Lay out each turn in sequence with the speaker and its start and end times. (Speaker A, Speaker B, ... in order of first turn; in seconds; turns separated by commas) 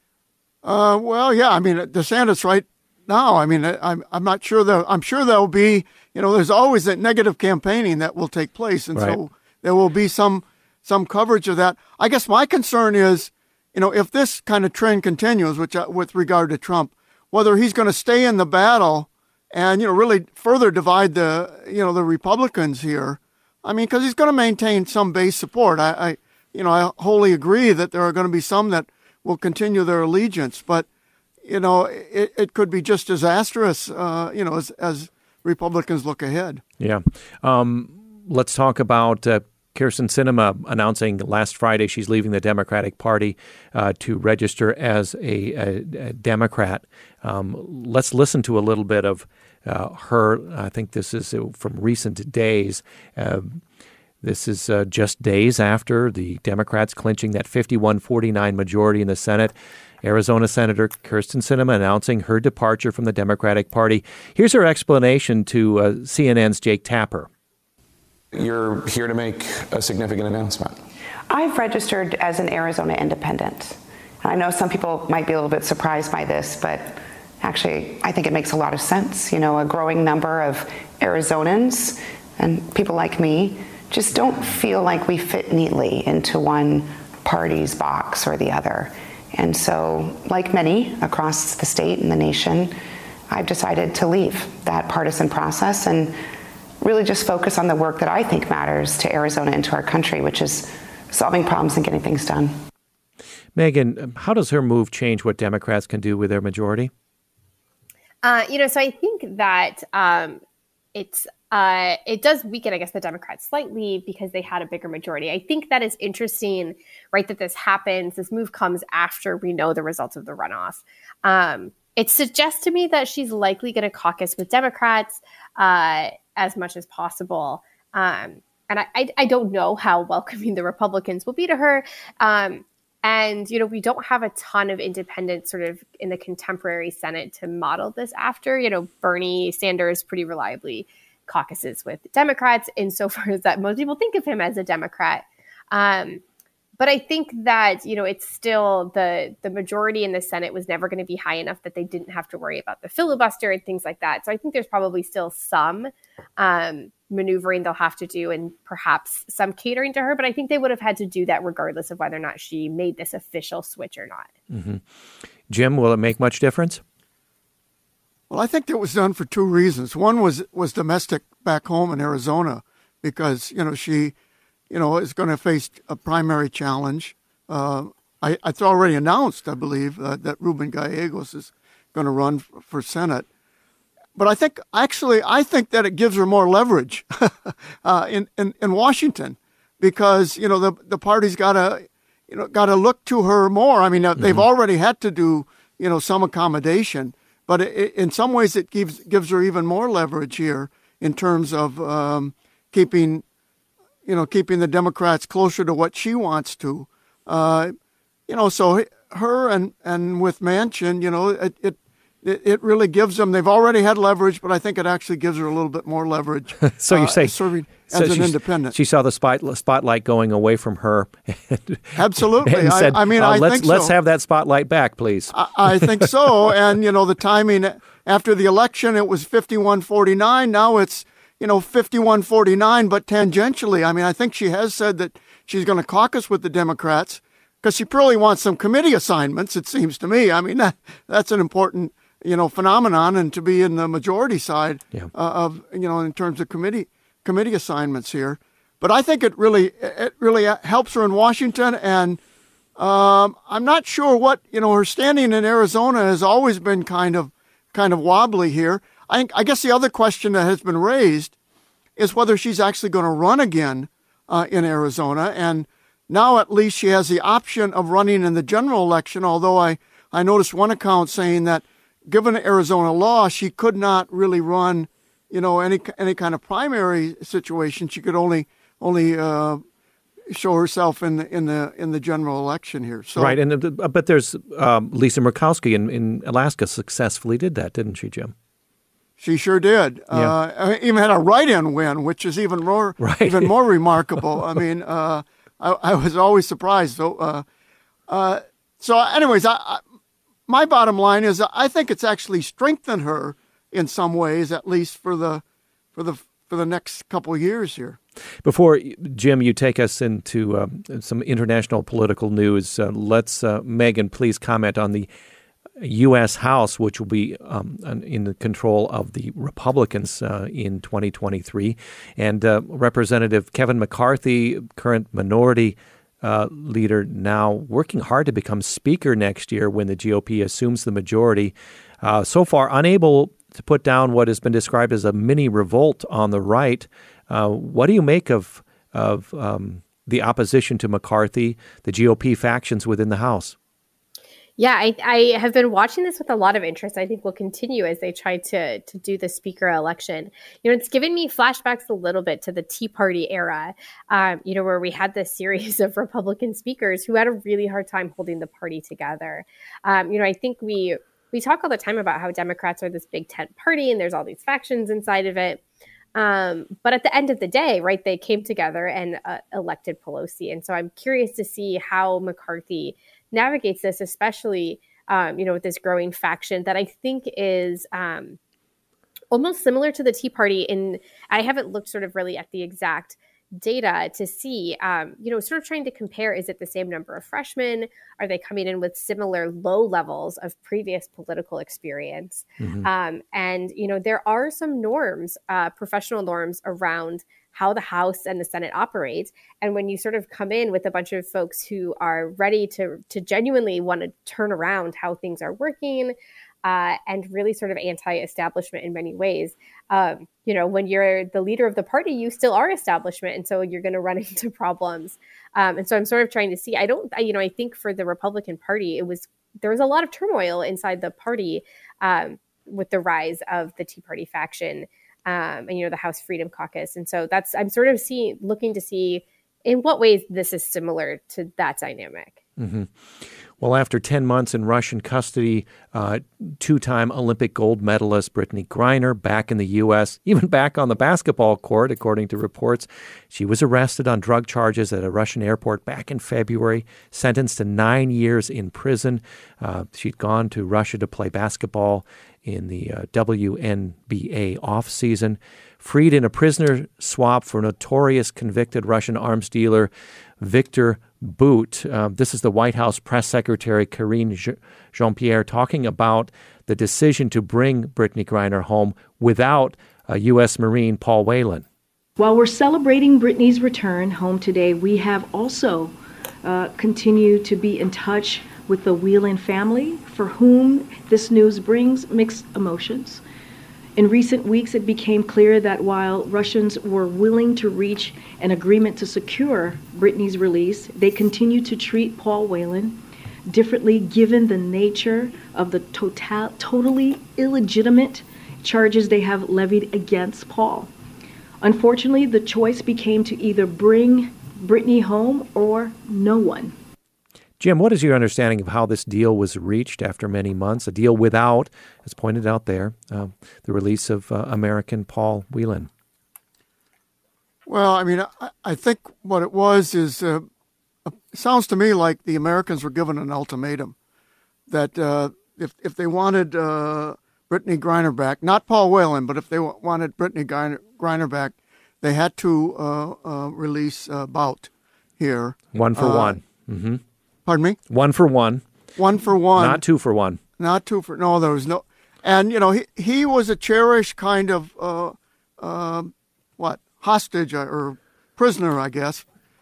Speaker A: 0.6-30.9, Speaker A: 31.4-36.6, Speaker B: 36.8-53.6, Speaker B: 54.2-67.3, Speaker C: 68.4-70.8, Speaker D: 71.3-92.8, Speaker D: 93.3-96.2, Speaker D: 96.8-102.5, Speaker B: 103.5-106.9, Speaker E: 108.2-110.4, Speaker E: 110.9-146.2, Speaker E: 146.8-164.3, Speaker B: 164.5-164.8, Speaker B: 165.5-166.8, Speaker A: 168.3-174.1, Speaker A: 174.7-183.3, Speaker A: 184.2-203.2, Speaker B: 194.2-194.4, Speaker A: 204.1-207.7, Speaker A: 208.3-218.7, Speaker B: 216.6-217.3, Speaker B: 217.9-221.9, Speaker A: 221.9-223.9, Speaker B: 222.4-226.0, Speaker A: 225.3-252.2, Speaker A: 252.8-261.3, Speaker A: 262.0-279.6, Speaker A: 280.3-283.4, Speaker B: 283.2-288.3, Speaker A: 289.2-297.4, Speaker B: 293.0-293.5, Speaker A: 298.1-299.8, Speaker A: 300.5-305.4, Speaker A: 305.9-308.0, Speaker B: 308.4-315.1, Speaker B: 315.8-343.6, Speaker E: 344.6-365.6, Speaker E: 366.1-378.4, Speaker E: 379.3-432.4, Speaker B: 392.6-392.9, Speaker B: 432.6-471.6, Speaker F: 472.2-483.2, Speaker F: 483.9-500.9, Speaker F: 501.6-506.7, Speaker B: 507.6-515.9, Speaker A: 517.7-520.5, Speaker A: 521.1-524.0, Speaker A: 524.7-536.4, Speaker B: 535.7-537.0, Speaker A: 537.5-537.8, Speaker B: 537.9-538.6, Speaker A: 539.0-539.8, Speaker B: 539.6-540.4, Speaker A: 540.6-549.3